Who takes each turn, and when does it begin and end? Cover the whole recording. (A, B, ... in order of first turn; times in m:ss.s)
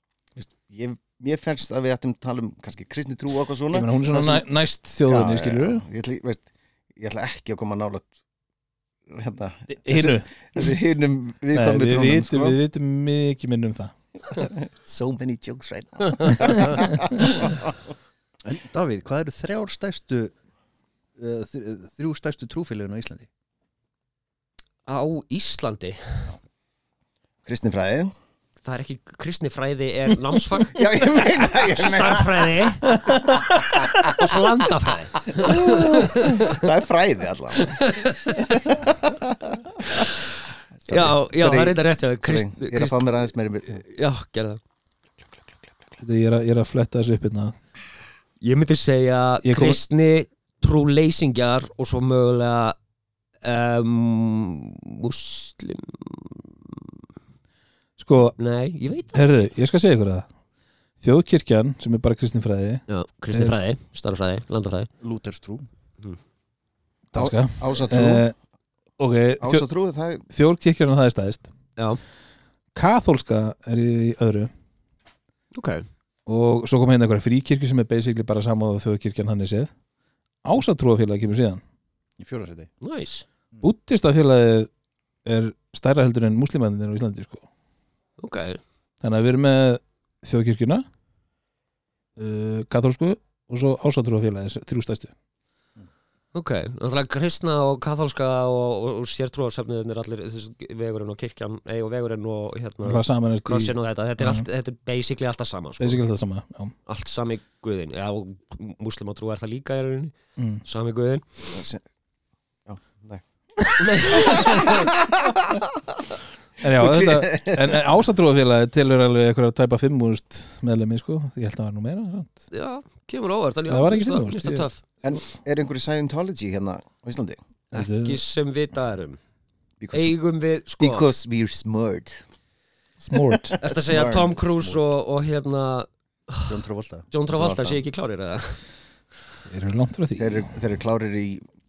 0:00.4-0:04.5 A
0:03.7-0:05.8 B
0:05.1-0:06.4 A
0:07.0-0:08.1 A
0:09.1-0:12.6 A
0:09.7-0:10.7 B
0:11.5-0:13.9 B
0:14.3-0:17.8 A
0:18.4-0:20.3 C
0:21.2-0:23.3 C
0:24.9-0:26.3 D
0:27.4-0:28.1 A
0:28.6-0:30.8 D
0:30.8-0:32.5 A
0:31.4-0:32.9 D
0:33.0-0:33.8 B
0:34.0-0:36.6 D
0:35.3-0:37.8 A
0:37.6-0:38.5 D
0:38.4-0:40.1 A
0:40.8-0:43.8 A
0:40.9-0:43.1 D
0:43.7-0:44.6 D
0:46.0-0:47.6 B
0:48.4-0:52.8 D
0:49.4-0:49.8 B
0:53.4-0:56.9 D
0:58.0-0:58.4 B
0:58.4-0:59.3 D
0:59.1-1:00.3 B
1:01.0-1:03.5 B
1:02.9-1:04.9 D
1:05.0-1:05.7 C
1:07.1-1:08.3 B
1:07.2-1:08.3 A
1:09.0-1:09.7 B
1:09.4-1:10.2 A
1:10.3-1:11.5 B
1:12.8-1:14.5 B
1:15.5-1:15.9 D
1:16.3-1:19.7 B
1:20.4-1:21.6 B
1:22.2-1:22.7 C
1:22.8-1:23.3 D
1:23.6-1:24.7 B
1:25.2-1:27.5 B
1:28.2-1:28.6 D
1:29.0-1:30.9 B
1:32.2-1:35.1 B
1:36.3-1:46.0 D
1:42.8-1:44.5 B
1:45.8-1:46.8 B
1:46.9-1:51.2 D
1:50.4-1:50.6 B
1:51.5-1:51.8 A
1:52.7-1:55.8 A
1:53.8-1:54.9 D
1:56.6-2:02.4 B
1:56.8-1:57.9 A
2:02.5-2:04.8 D
2:03.7-2:04.7 B
2:05.0-2:07.4 A
2:07.7-2:08.2 B
2:07.7-2:09.2 D
2:09.8-2:10.2 A
2:09.9-2:11.1 D
2:10.8-2:12.2 A
2:13.0-2:13.6 B
2:13.6-2:16.6 D
2:13.7-2:14.4 A
2:13.9-2:14.8 C
2:16.5-2:17.1 C
2:17.1-2:18.6 D
2:17.4-2:17.8 A
2:19.5-2:20.5 B
2:20.2-2:21.5 A